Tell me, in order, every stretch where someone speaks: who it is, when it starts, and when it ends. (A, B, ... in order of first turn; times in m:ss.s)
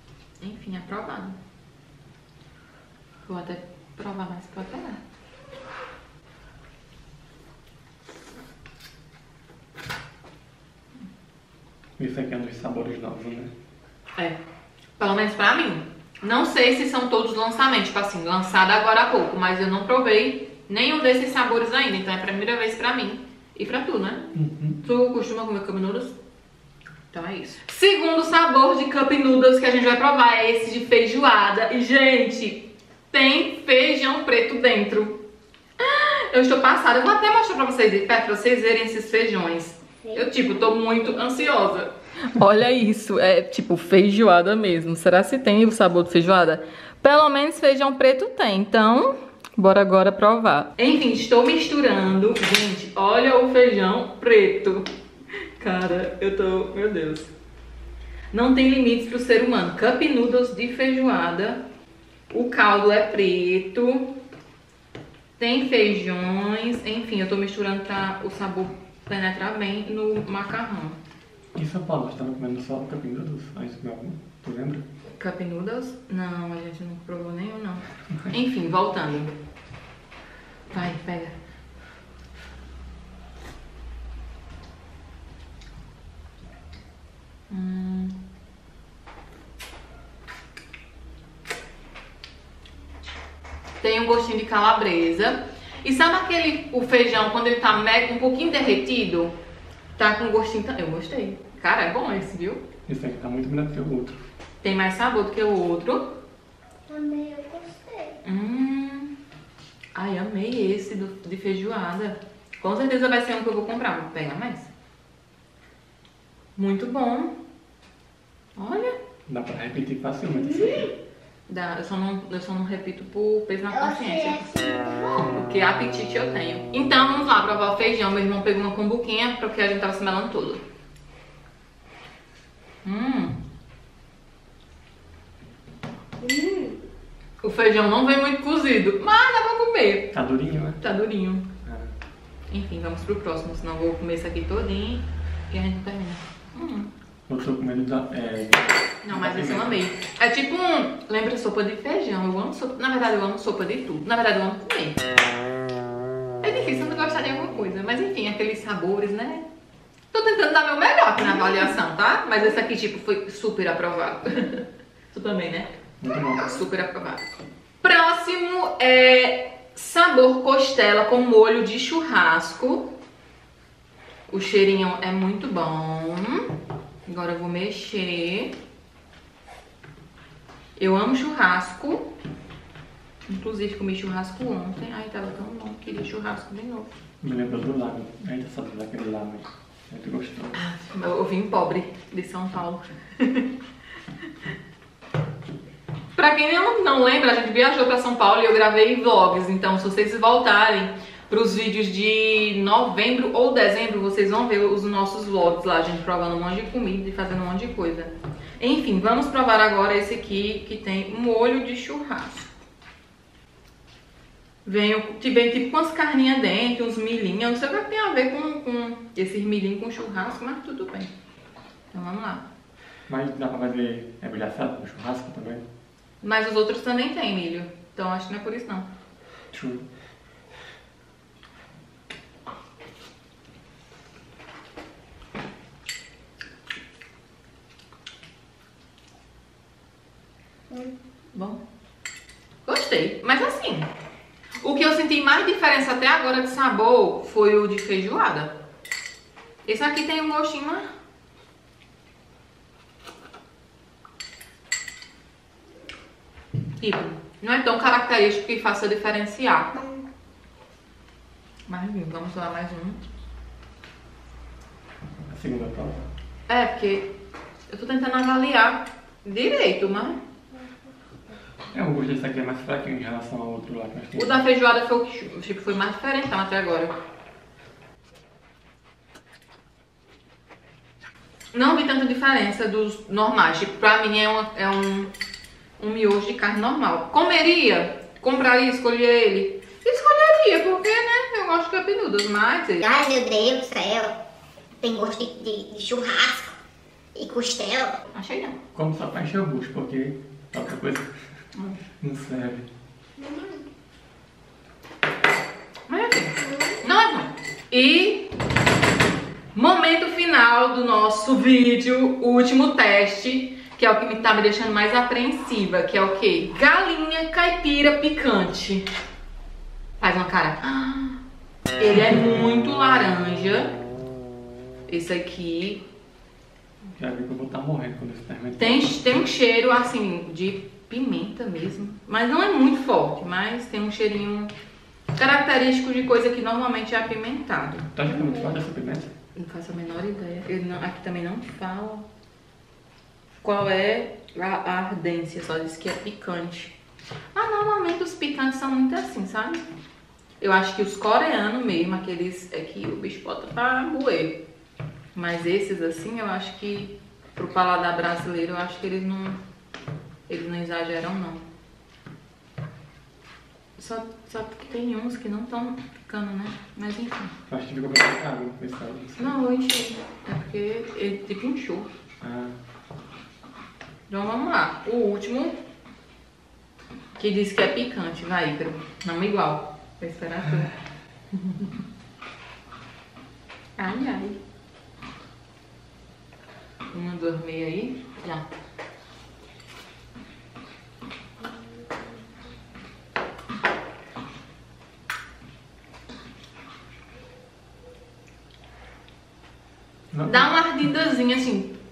0:00.4-0:01.4 A
0:03.2-0:05.0 A
0:12.0-0:13.5 B
0:15.0-0:24.3 A
0:24.3-0:24.8 B
0:24.8-0:26.1 A
0:27.1-0:35.2 A
0:35.8-0:54.9 A
0:55.6-0:57.3 A
0:58.3-1:01.6 A
1:02.3-1:04.1 A
1:05.4-1:11.0 A
1:11.5-1:14.8 B
1:15.1-1:19.3 A
1:20.7-1:21.3 A
1:27.5-1:28.2 A
1:33.8-1:39.3 A
1:40.0-1:42.6 A
1:42.9-1:44.2 B
1:44.6-1:46.2 A
1:46.9-1:48.1 C
1:48.2-1:49.1 A
1:49.9-1:54.7 A
1:56.6-1:57.3 A
1:58.6-1:58.9 A
1:59.3-2:00.9 B
2:01.5-2:10.6 A
2:03.7-2:05.2 C
2:12.8-2:13.4 A
2:16.2-2:16.8 C
2:17.4-2:20.1 A
2:20.1-2:20.8 B
2:20.8-2:21.5 A
2:21.6-2:21.9 B
2:22.5-2:26.9 A
2:27.3-2:29.8 B
2:29.0-2:35.0 A
2:36.4-2:39.4 A
2:40.1-2:45.7 A
2:46.0-2:46.5 B
2:46.4-2:47.2 A
2:47.8-2:52.9 A
2:54.3-2:56.4 A
2:57.0-2:58.5 A
3:00.8-3:02.1 A
3:03.3-3:06.9 A
3:07.2-3:10.6 B
3:10.5-3:13.5 A
3:16.2-3:32.5 A
3:34.6-3:41.1 A
3:41.9-3:42.4 A
3:43.1-3:45.6 B
3:46.2-3:48.9 A
3:49.5-3:49.8 B
4:01.3-4:01.6 A
4:02.6-4:03.9 A
4:04.6-4:08.5 A
4:09.6-4:10.9 A
4:16.8-4:19.8 A
4:21.7-4:23.0 A
4:25.3-4:26.0 B
4:26.5-4:27.1 A
4:27.7-4:30.2 A
4:31.7-4:34.4 B
4:34.1-4:36.9 A
4:41.5-4:45.1 A
4:45.8-4:52.8 A
4:52.8-4:54.1 C
4:54.8-4:56.6 C
4:57.2-4:58.0 C
4:58.1-4:58.6 A
4:58.7-5:01.1 B
5:01.5-5:01.8 A
5:02.0-5:02.7 B
5:03.2-5:03.6 C
5:05.9-5:08.3 A
5:09.5-5:18.8 A
5:20.0-5:21.2 A
5:21.8-5:23.7 A
5:24.9-5:25.8 A
5:27.0-5:28.9 B
5:28.6-5:34.5 A
5:35.2-5:37.9 A
5:37.9-5:39.1 B
5:39.4-5:42.0 A
5:43.4-5:46.7 A
5:47.3-5:49.6 A
5:50.4-5:54.4 A
5:55.1-5:59.4 A
6:00.3-6:01.4 A
6:03.8-6:07.3 A
6:07.5-6:09.3 B
6:09.2-6:11.9 A
6:12.2-6:12.6 B
6:14.1-6:15.6 A
6:17.2-6:20.7 A
6:21.3-6:21.7 A
6:23.8-6:24.4 A
6:26.9-6:28.4 A
6:40.1-6:40.5 B
6:40.3-6:41.7 A